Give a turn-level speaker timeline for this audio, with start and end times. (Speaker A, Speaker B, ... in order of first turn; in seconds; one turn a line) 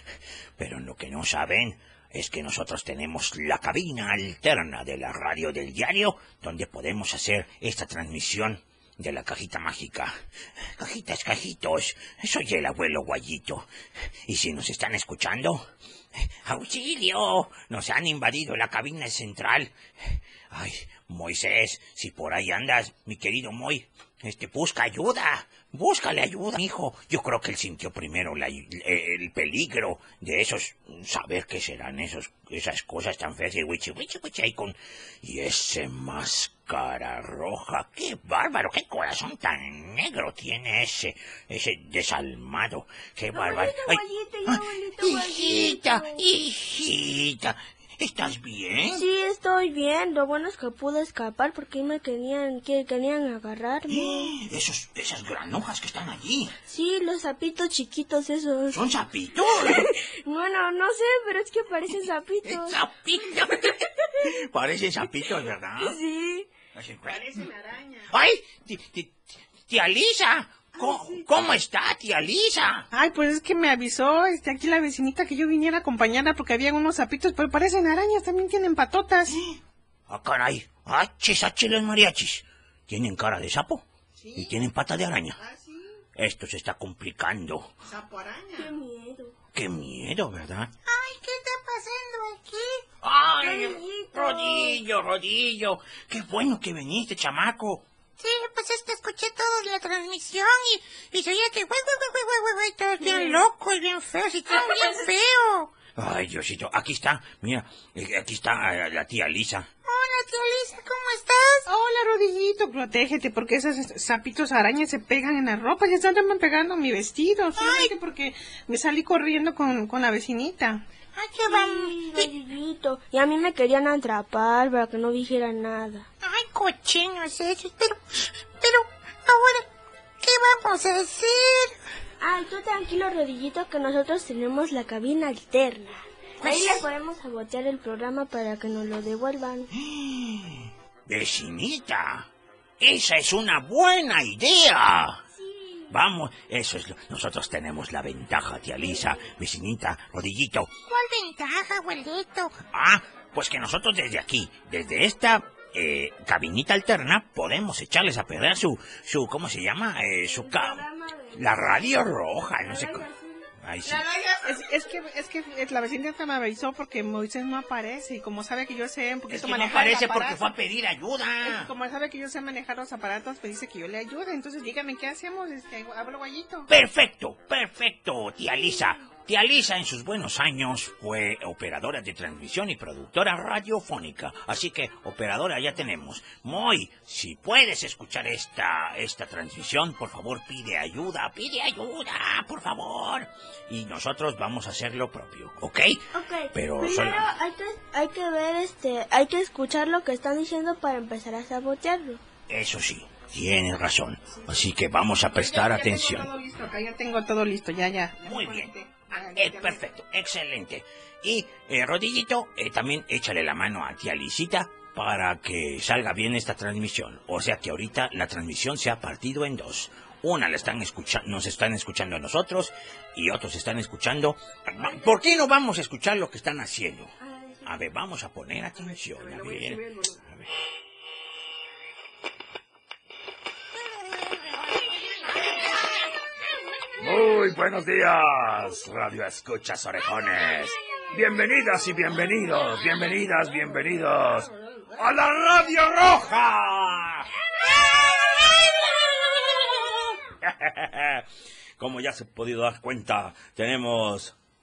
Speaker A: 0.6-10.2
Speaker A: 10.8-13.7
Speaker A: 14.3-15.7
Speaker A: 16.4-19.7
Speaker A: 20.5-49.0
Speaker B: 43.3-46.2
Speaker B: 48.9-54.4
Speaker A: 53.9-56.5
Speaker B: 56.7-58.8
Speaker A: 58.7-59.9
Speaker B: 59.5-62.8
Speaker A: 62.4-63.7
Speaker A: 64.3-66.0
Speaker B: 65.8-66.5
Speaker A: 66.7-67.5
Speaker C: 67.2-68.0
Speaker A: 68.1-72.8
Speaker C: 70.8-71.1
Speaker C: 72.9-79.3
Speaker A: 80.1-83.8
Speaker C: 84.2-84.5
Speaker A: 84.4-85.4
Speaker C: 85.4-85.8
Speaker A: 86.2-87.7
Speaker C: 87.8-88.7
Speaker B: 88.5-89.3
Speaker A: 89.5-90.7
Speaker D: 90.9-92.8
Speaker A: 93.0-97.9
Speaker B: 93.4-94.8
Speaker D: 98.2-105.8
Speaker A: 106.0-109.7
Speaker D: 109.8-111.6
Speaker C: 111.7-120.8
Speaker D: 117.6-117.9
Speaker D: 121.2-122.3
Speaker B: 121.5-126.1
Speaker D: 126.2-129.6
Speaker D: 130.2-131.8
Speaker B: 132.2-139.7
Speaker A: 139.8-140.5
Speaker A: 141.1-142.3
Speaker A: 142.8-145.2
Speaker B: 145.3-145.9
Speaker A: 145.9-150.8
Speaker B: 148.9-149.2
Speaker D: 150.9-152.6
Speaker A: 152.6-160.8
Speaker B: 160.3-161.9
Speaker A: 161.3-163.1
Speaker B: 162.6-163.4
Speaker A: 163.6-164.1
Speaker C: 163.9-170.4
Speaker A: 169.3-171.7
Speaker C: 171.4-176.7
Speaker A: 176.7-197.3
Speaker B: 196.1-202.2
Speaker A: 202.5-206.3
Speaker C: 205.3-209.8
Speaker A: 208.2-227.1
Speaker B: 227.2-227.6
Speaker A: 227.6-230.5
Speaker C: 229.0-230.2
Speaker E: 237.0-240.0
Speaker A: 240.0-240.7
Speaker E: 241.1-247.2
Speaker E: 251.8-254.1